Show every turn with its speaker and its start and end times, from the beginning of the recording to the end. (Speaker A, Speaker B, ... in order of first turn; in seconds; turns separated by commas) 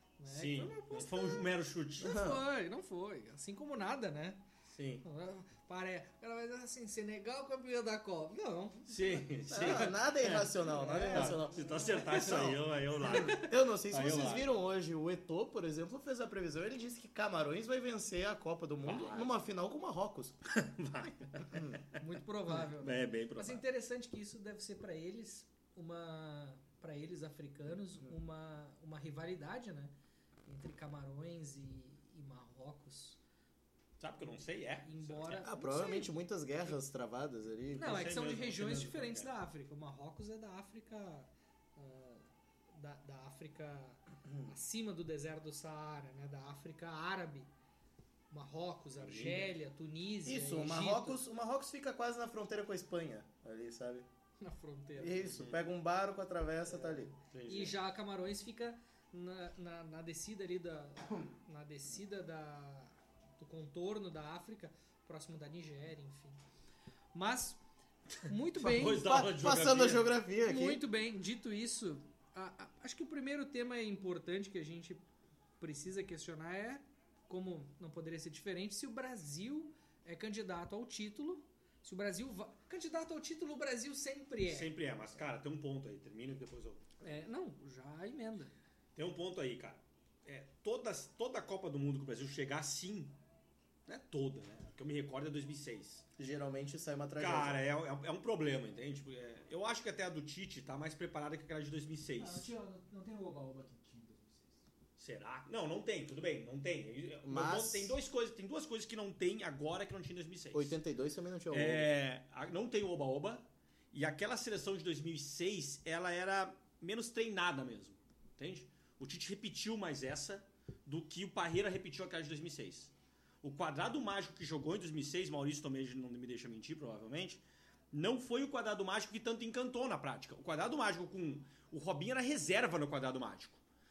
Speaker A: 0.2-4.4, Speaker B: 0.3-2.1, Speaker C: 2.0-2.4, Speaker B: 4.7-5.0, Speaker A: 5.0-9.9, Speaker B: 8.9-14.5, Speaker C: 9.5-20.3, Speaker A: 10.6-12.5, Speaker B: 18.8-19.3, Speaker B: 20.4-23.6, Speaker C: 21.5-21.8, Speaker A: 21.9-29.9, Speaker A: 30.4-33.2, Speaker B: 34.0-35.5, Speaker A: 34.8-36.1, Speaker C: 35.4-38.1, Speaker B: 37.7-39.3, Speaker A: 37.8-47.5, Speaker A: 48.3-51.2, Speaker B: 49.0-49.5, Speaker C: 50.2-54.1, Speaker A: 54.4-55.4, Speaker C: 55.0-57.1, Speaker B: 55.3-55.6, Speaker A: 56.7-66.4, Speaker B: 57.3-57.8, Speaker A: 67.1-67.6, Speaker A: 68.2-69.1, Speaker B: 68.6-70.1, Speaker C: 68.6-70.8, Speaker A: 70.4-75.0, Speaker A: 75.6-84.7, Speaker B: 84.4-86.8, Speaker A: 87.0-88.5, Speaker B: 88.9-93.2, Speaker B: 93.9-96.0, Speaker C: 96.2-97.6, Speaker B: 97.2-102.5, Speaker D: 102.2-104.6, Speaker B: 105.0-110.8, Speaker C: 107.2-108.0, Speaker C: 110.5-111.9, Speaker B: 111.5-122.9, Speaker B: 123.4-127.4, Speaker B: 127.9-133.6